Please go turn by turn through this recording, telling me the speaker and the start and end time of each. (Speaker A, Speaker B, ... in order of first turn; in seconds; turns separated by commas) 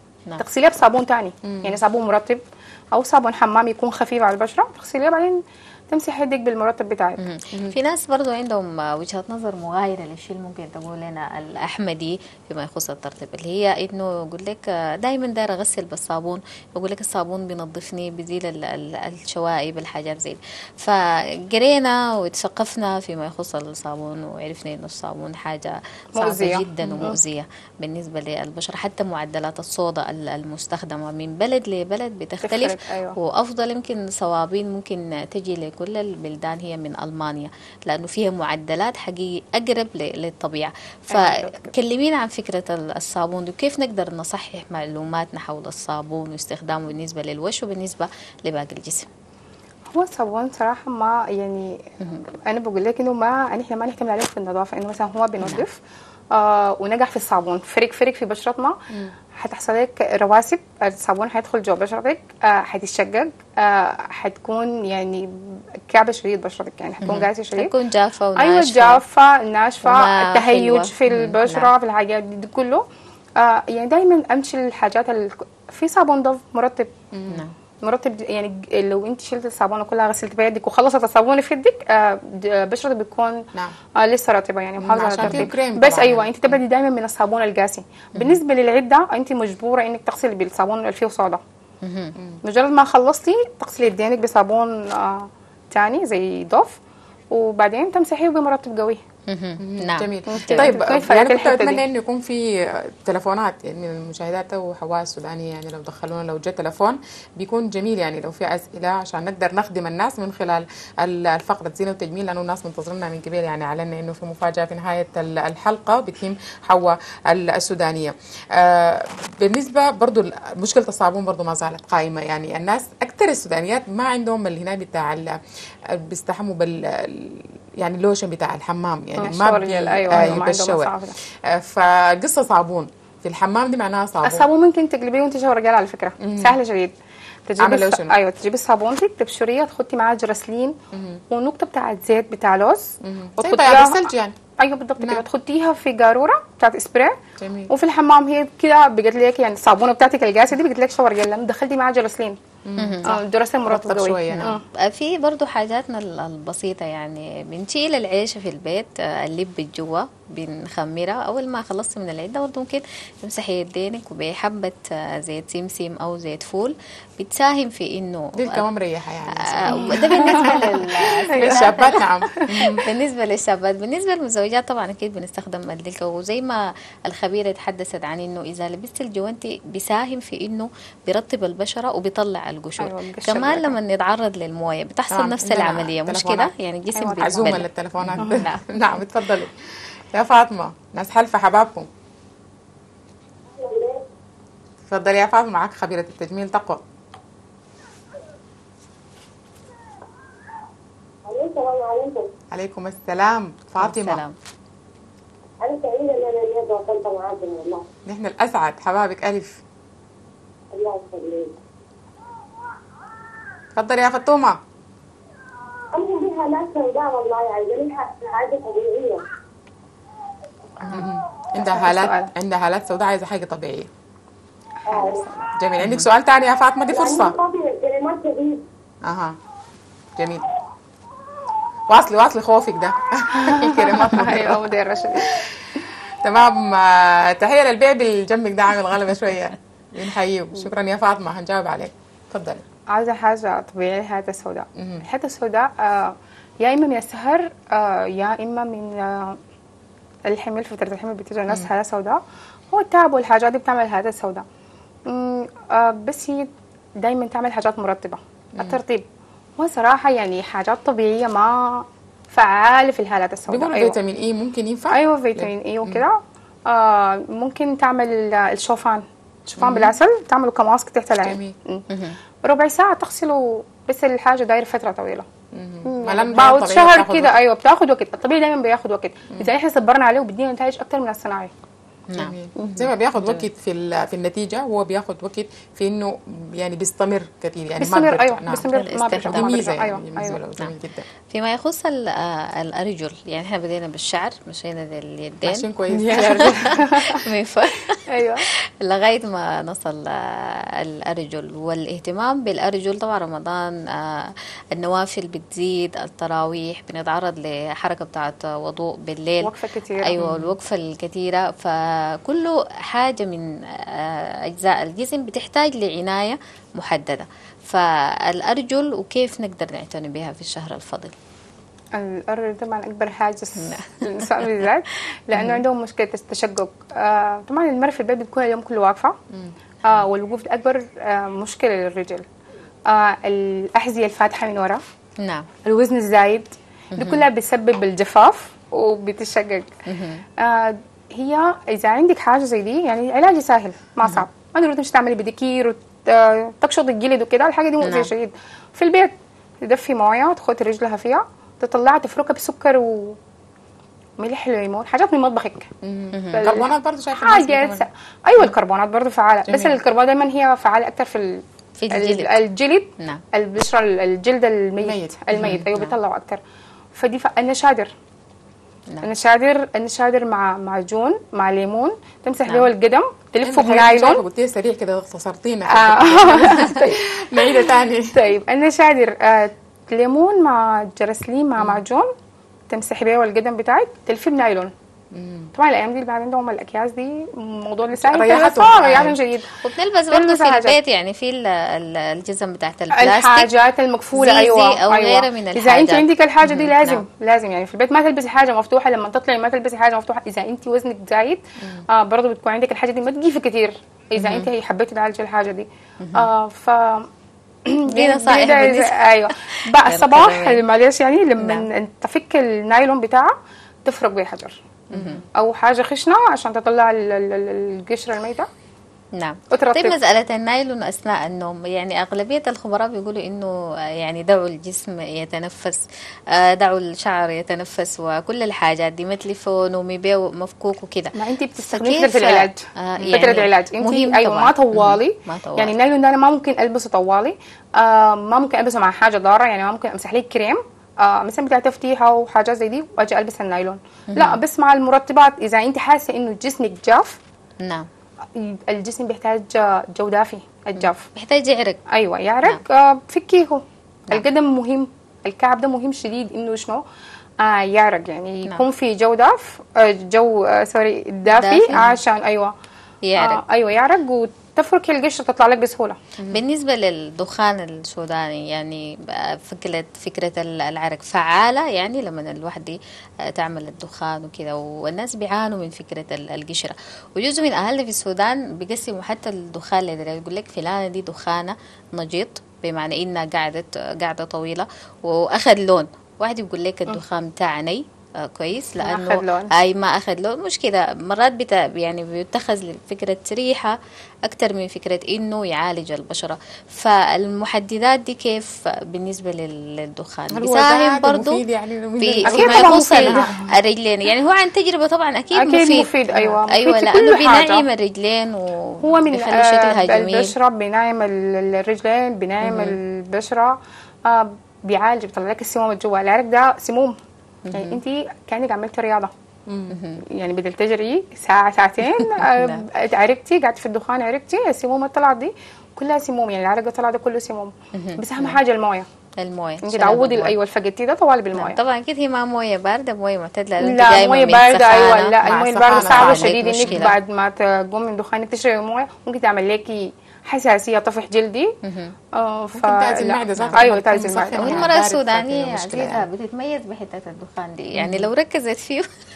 Speaker A: 0.4-7.2, Speaker B: 1.4-1.8, Speaker C: 7.2-49.1, Speaker A: 26.2-27.2, Speaker A: 32.4-33.2, Speaker A: 41.1-41.7, Speaker A: 49.9-55.8, Speaker A: 56.3-58.8, Speaker A: 59.3-67.7, Speaker C: 67.0-69.0, Speaker A: 68.4-72.8, Speaker C: 69.8-71.7, Speaker A: 73.4-76.9, Speaker B: 77.1-77.4, Speaker A: 77.8-91.4, Speaker B: 84.8-86.3, Speaker C: 85.2-85.5, Speaker C: 91.8-92.2, Speaker A: 92.4-96.8, Speaker A: 97.3-99.0, Speaker C: 99.3-100.8, Speaker B: 99.6-130.9, Speaker A: 100.3-101.8, Speaker A: 129.2-131.2, Speaker B: 131.5-134.5, Speaker A: 134.2-136.9, Speaker B: 136.2-136.6, Speaker A: 137.5-140.8, Speaker B: 137.6-138.2, Speaker B: 140.9-141.2, Speaker A: 141.3-144.0, Speaker B: 143.0-144.4, Speaker A: 144.6-147.2, Speaker B: 147.4-147.7, Speaker A: 147.7-152.4, Speaker B: 152.7-153.1, Speaker C: 152.8-153.2, Speaker A: 153.0-154.6, Speaker B: 153.7-154.5, Speaker C: 154.3-168.7, Speaker B: 168.4-172.8, Speaker C: 169.4-172.1, Speaker A: 169.7-170.7, Speaker A: 171.4-172.7, Speaker C: 172.8-188.6, Speaker A: 182.8-183.8, Speaker B: 185.1-186.5, Speaker A: 186.9-187.6, Speaker B: 187.2-189.5, Speaker A: 188.2-188.4, Speaker B: 190.1-191.9, Speaker D: 193.5-194.0, Speaker B: 194.9-196.8, Speaker D: 201.2-202.3, Speaker B: 202.5-204.2, Speaker C: 203.8-204.4, Speaker D: 205.6-207.9, Speaker B: 208.1-209.6, Speaker D: 210.7-211.6, Speaker B: 213.8-214.6, Speaker D: 215.9-219.2, Speaker B: 220.8-223.9, Speaker A: 221.6-222.3, Speaker A: 224.8-225.5, Speaker D: 224.9-225.2, Speaker B: 225.6-227.4, Speaker C: 225.8-226.1, Speaker D: 226.9-228.7, Speaker B: 229.1-229.4, Speaker B: 230.2-230.4, Speaker B: 231.9-242.7, Speaker A: 233.3-235.4, Speaker A: 242.9-249.4, Speaker B: 244.8-245.1, Speaker A: 250.3-252.2, Speaker A: 252.7-254.4, Speaker A: 255.1-259.1, Speaker A: 259.6-264.0, Speaker B: 263.5-266.0, Speaker A: 264.9-269.1, Speaker B: 269.5-270.0, Speaker A: 269.6-271.9, Speaker B: 271.2-271.6, Speaker C: 271.9-272.2, Speaker A: 272.4-275.3, Speaker B: 275.5-277.3, Speaker A: 275.9-281.5, Speaker B: 282.2-288.7, Speaker A: 282.6-282.9, Speaker C: 283.2-283.4, Speaker A: 287.8-290.4, Speaker C: 288.7-289.5, Speaker B: 289.3-291.1, Speaker C: 291.3-298.1, Speaker B: 295.4-296.8, Speaker A: 296.7-297.2, Speaker A: 298.1-298.4, Speaker C: 298.8-321.1, Speaker A: 309.4-310.2, Speaker B: 310.2-310.5, Speaker A: 321.9-329.2, Speaker C: 323.6-324.6, Speaker A: 329.8-332.2, Speaker A: 332.9-334.8, Speaker C: 335.2-335.5, Speaker A: 335.6-339.7, Speaker C: 336.9-337.3, Speaker C: 339.9-340.2, Speaker A: 340.4-353.2, Speaker C: 347.8-348.1, Speaker A: 354.2-355.7, Speaker B: 355.8-357.9, Speaker C: 356.1-356.5, Speaker A: 356.3-366.4, Speaker B: 359.5-359.8, Speaker C: 361.8-362.4, Speaker B: 364.8-365.7, Speaker C: 365.4-365.9, Speaker A: 366.9-367.9, Speaker A: 369.0-374.2, Speaker B: 373.4-378.2, Speaker A: 375.7-382.1, Speaker A: 382.7-384.7, Speaker B: 385.1-385.5, Speaker A: 385.6-389.6, Speaker B: 388.0-389.2, Speaker C: 389.6-393.5, Speaker A: 390.1-390.8, Speaker A: 392.9-407.1, Speaker C: 394.1-397.0, Speaker B: 401.6-401.9, Speaker C: 406.0-406.3, Speaker A: 407.7-414.6, Speaker C: 407.9-410.6, Speaker C: 411.4-411.7, Speaker C: 414.9-415.2, Speaker B: 414.9-415.2, Speaker A: 415.3-418.5, Speaker C: 419.2-435.7, Speaker A: 419.5-420.0, Speaker A: 431.2-432.6, Speaker A: 433.1-447.2, Speaker C: 444.1-444.4, Speaker C: 447.6-447.9, Speaker A: 448.3-451.1, Speaker C: 450.8-451.8, Speaker A: 451.9-456.8, Speaker A: 457.4-462.5, Speaker C: 461.3-462.0, Speaker C: 463.1-463.4, Speaker A: 463.2-466.0, Speaker C: 466.3-501.4, Speaker A: 488.8-489.5, Speaker B: 500.3-503.4, Speaker C: 502.0-510.3, Speaker A: 502.2-503.5, Speaker A: 505.3-507.6, Speaker A: 508.8-517.0, Speaker C: 512.4-512.8, Speaker C: 517.5-517.8, Speaker A: 517.5-519.1, Speaker B: 519.5-519.8, Speaker C: 519.7-520.0, Speaker A: 520.1-528.9, Speaker C: 522.0-522.6, Speaker C: 527.7-528.4, Speaker C: 529.2-530.4, Speaker A: 529.6-531.6, Speaker C: 531.4-535.2, Speaker A: 533.6-541.5, Speaker B: 535.2-536.9, Speaker C: 535.7-537.0, Speaker C: 541.6-542.0, Speaker A: 542.1-544.7, Speaker B: 542.6-546.0, Speaker C: 543.4-543.6, Speaker C: 544.4-548.9